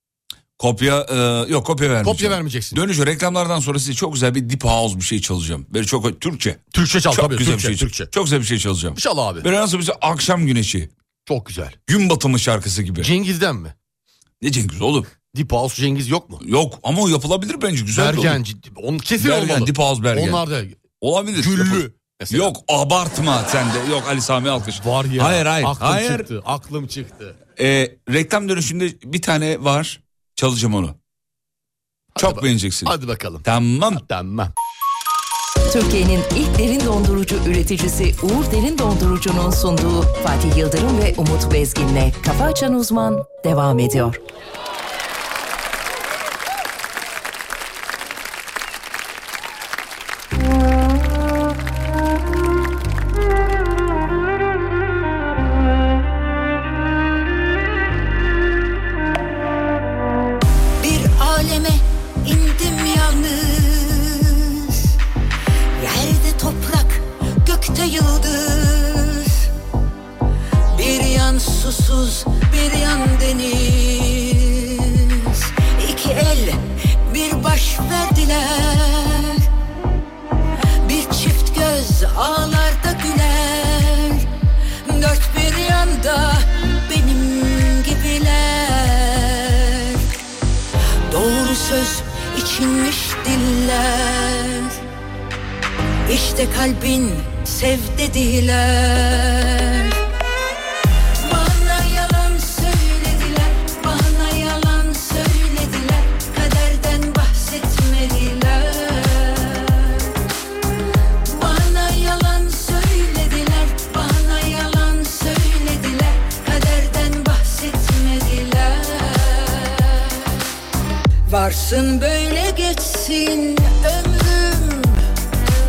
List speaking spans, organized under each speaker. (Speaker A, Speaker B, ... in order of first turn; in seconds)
Speaker A: 0.6-10.9, 11.9-13.1, 14.4-15.1, 16.4-18.4, 19.2-20.4, 21.0-26.3, 27.6-31.0, 32.2-34.0
Speaker B: 2.0-2.8, 6.7-8.1, 8.9-9.4, 11.2-11.8, 13.0-13.7, 15.2-16.4, 17.9-20.8, 21.3-22.5, 24.7-27.4, 32.1-34.5
Speaker C: 35.7-44.2
Speaker D: 60.8-64.9, 65.8-69.5, 70.7-79.4, 80.8-84.2, 84.8-90.0, 91.1-94.8, 96.1-100.0, 101.2-110.1, 111.2-120.3, 121.3-125.0